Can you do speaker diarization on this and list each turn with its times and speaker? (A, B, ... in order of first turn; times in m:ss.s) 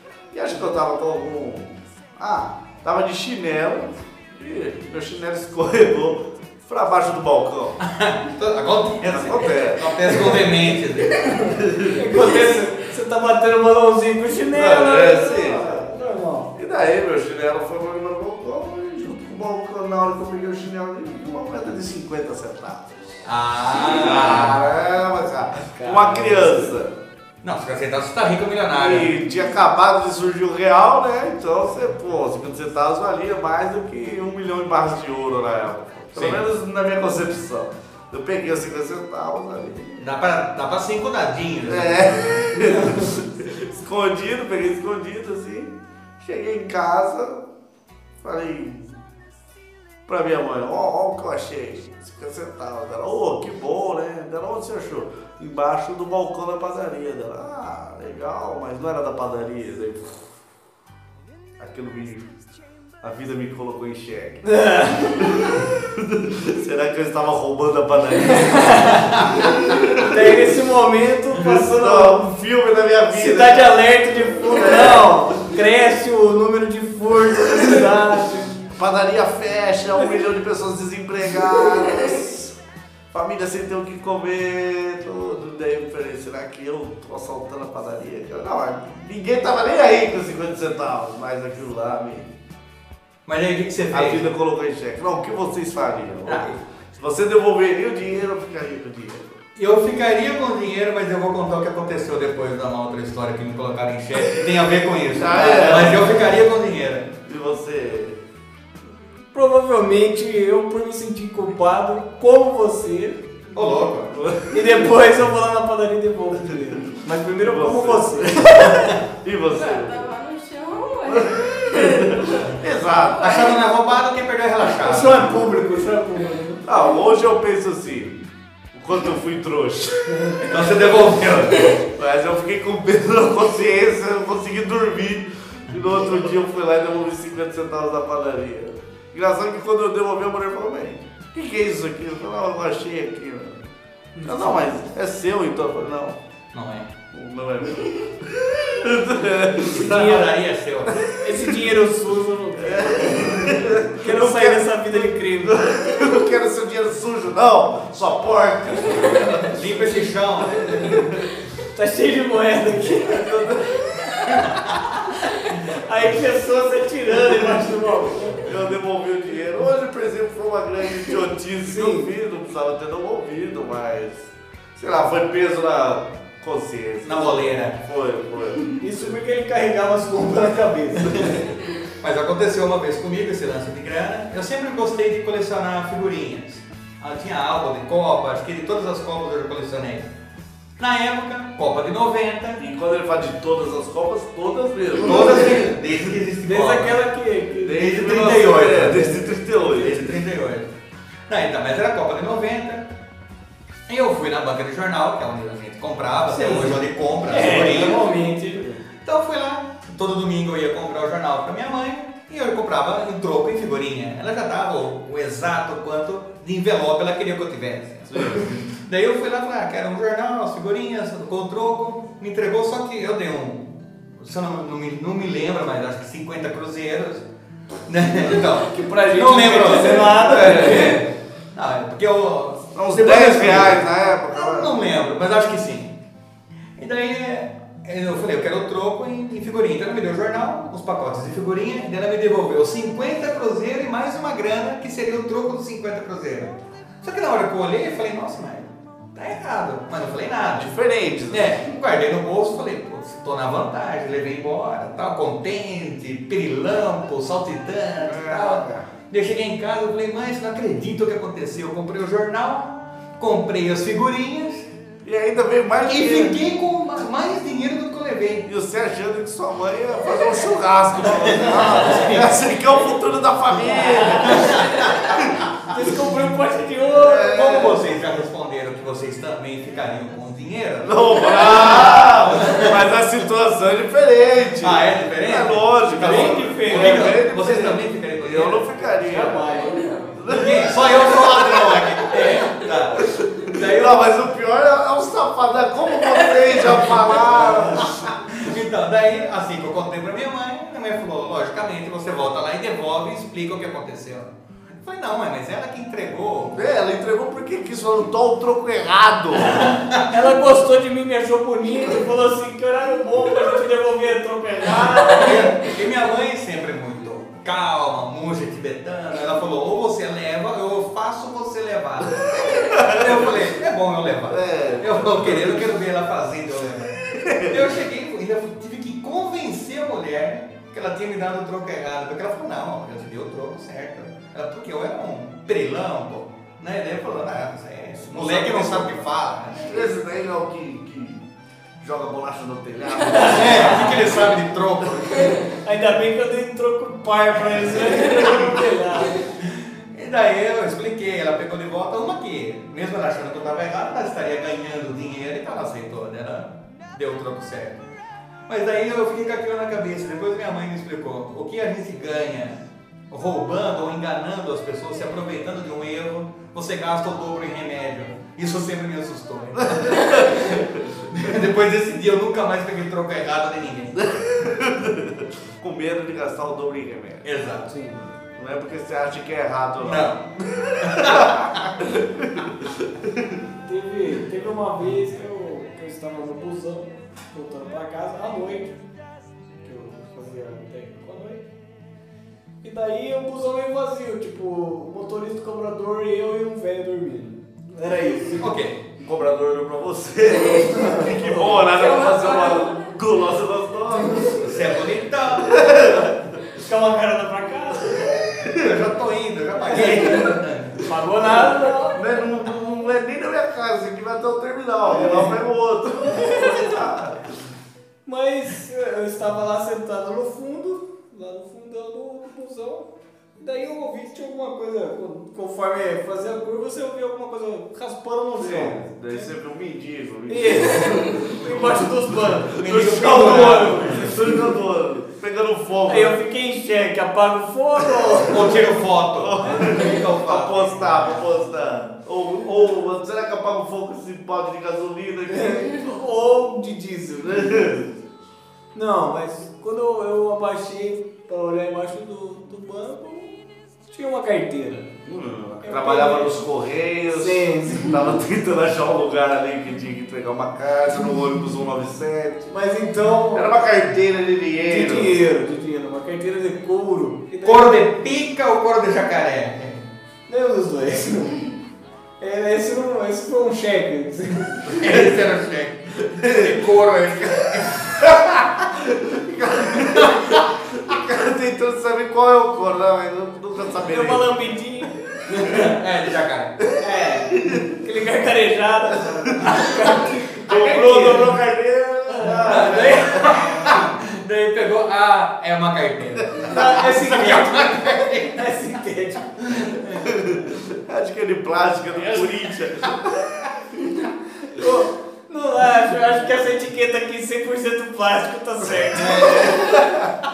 0:00.3-0:07.8 A
0:07.8-0:11.5 B
0:09.0-0:10.4 A
0:11.5-0:12.0 A
0:11.9-0:16.5 C
0:14.5-0:15.9 A
0:16.5-0:27.0 A
0:23.2-0:24.6 B
0:25.6-0:26.8 C
0:27.4-0:29.1 B
0:28.7-0:40.1 A
0:36.1-0:36.4 B
0:40.0-0:42.8 B
0:41.6-0:47.4 A
0:48.2-0:49.0 A
0:50.0-1:00.2 A
1:01.6-1:02.3 A
1:03.0-1:04.5 A
1:04.4-1:05.5 C
1:05.2-1:10.4 A
1:08.2-1:09.2 C
1:10.0-1:12.2 C
1:11.4-1:15.6 A
1:13.1-1:18.6 C
1:18.7-1:22.6 A
1:23.1-1:32.3 A
1:33.2-1:34.2 B
1:33.9-1:39.4 A
1:36.2-1:36.6 B
1:39.6-1:47.1 B
1:45.1-1:46.2 A
1:47.2-1:48.2 A
1:49.3-1:53.4 C
1:53.5-1:54.2 B
1:54.1-1:54.9 A
1:54.5-1:58.9 C
1:57.4-2:00.1 A
1:58.7-1:58.9 B
1:59.5-2:02.6 D
2:01.1-2:03.5 A
2:03.1-2:03.6 D
2:03.2-2:05.4 B
2:04.8-2:06.6 C
2:06.6-2:08.2 A
2:08.7-2:23.7 A
2:10.1-2:10.4 C
2:10.5-2:11.7 B
2:24.1-2:24.6 C
2:24.2-2:26.2 A
2:26.5-2:26.9 B
2:27.1-2:30.2 A
2:29.7-2:31.0 B
2:29.8-2:30.3 C
2:30.9-2:31.5 A
2:31.2-2:35.7 C
2:32.6-2:39.6 A
2:39.4-2:40.9 B
2:40.7-2:41.2 A
2:41.7-2:48.5 C
2:43.0-2:43.6 A
2:48.4-2:59.1 A
2:51.6-2:52.1 C
2:57.0-2:57.8 B
2:58.8-3:01.4 C
3:01.0-3:01.3 A
3:02.0-3:10.1 B
3:10.8-3:12.6 B
3:12.6-3:15.9 A
3:15.0-3:17.0 B
3:16.4-3:17.8 C
3:17.6-3:20.2 A
3:17.7-3:20.7 B
3:21.3-3:22.9 B
3:23.9-3:28.1 B
3:26.3-3:28.6 C
3:28.5-3:28.8 A
3:29.0-3:47.2 B
3:38.1-3:38.6 A
3:47.8-3:56.0 B
3:48.4-3:51.0 C
3:50.1-3:51.0 A
3:52.7-3:54.8 A
3:56.8-4:10.7 B
4:10.6-4:11.6 A
4:11.3-4:24.7 B
4:18.0-4:18.9 A
4:25.0-4:26.4 A
4:25.8-4:28.5 B
4:28.4-4:35.4 A
4:31.0-4:32.4 B
4:34.1-4:35.3 B
4:34.1-4:34.6 C
4:35.7-4:37.7 C
4:37.0-4:37.8 A
4:37.2-4:42.8 B
4:40.8-4:52.0 A
4:44.5-4:48.6 B
4:46.0-4:47.2 C
4:49.0-4:50.0 C
4:49.5-4:50.2 D
4:50.3-4:53.9 B
4:52.1-4:52.6 C
4:52.9-4:58.1 A
4:56.8-5:04.3 B
5:04.8-5:06.6 B
5:06.5-5:09.7 A
5:09.4-5:15.6 C
5:15.1-5:39.8 B
5:22.4-5:23.3 A
5:24.2-5:25.7 A
5:27.1-5:27.7 A
5:38.0-5:41.2 A
5:41.8-5:44.3 A
5:43.0-5:43.9 C
5:43.1-5:45.4 B
5:45.4-5:49.2 C
5:47.8-5:48.3 B
5:49.4-5:57.8 B
5:58.5-6:14.1 B
6:09.6-6:10.8 A
6:14.0-6:17.3 A
6:17.2-6:17.7 B
6:17.7-6:18.1 C
6:18.3-6:23.4 A
6:19.8-6:20.2 B
6:20.8-6:21.7 B
6:23.6-6:28.7 C
6:29.6-6:31.4 C
6:32.6-6:38.5 C
6:38.4-6:38.8 B
6:39.0-6:46.1 A
6:40.4-6:40.7 D
6:40.6-6:41.5 C
6:41.3-6:43.0 D
6:44.0-6:44.3 C
6:44.4-6:46.2 B
6:46.6-6:48.2 C
6:48.3-6:48.8 A
6:48.4-6:50.8 B
6:49.7-6:52.0 C
6:51.9-6:57.4 A
6:54.9-6:55.3 C
6:56.1-6:56.7 C
6:58.0-7:09.3 C
7:08.4-7:11.9 A
7:10.3-7:14.0 C
7:12.5-7:16.2 A
7:12.6-7:14.1 B
7:15.9-7:18.6 C
7:18.3-7:21.2 B
7:19.2-7:26.0 A
7:19.4-7:20.0 C
7:25.3-7:27.8 C
7:27.2-7:27.9 A
7:28.7-7:34.9 C
7:35.0-7:42.5 A
7:35.6-7:36.4 C
7:37.1-7:38.0 C
7:42.5-7:43.6 C
7:43.3-7:45.2 A
7:44.6-7:47.8 C
7:47.4-7:49.9 B
7:50.3-7:51.5 C
7:52.2-7:54.7 C
7:54.7-7:58.4 B
7:54.8-7:55.2 A
7:56.0-7:56.7 A
7:57.2-8:04.3 A
7:59.8-8:00.4 B
8:03.8-8:05.0 C
8:05.3-8:06.6 B
8:05.4-8:05.7 A
8:06.8-8:11.3 C
8:07.3-8:07.6 A
8:09.0-8:09.6 A
8:10.4-8:13.8 A
8:12.1-8:13.5 C
8:12.2-8:18.5 B
8:16.4-8:19.3 C
8:19.4-8:20.1 B
8:20.0-8:23.3 A
8:24.5-8:30.0 C
8:29.0-8:29.8 B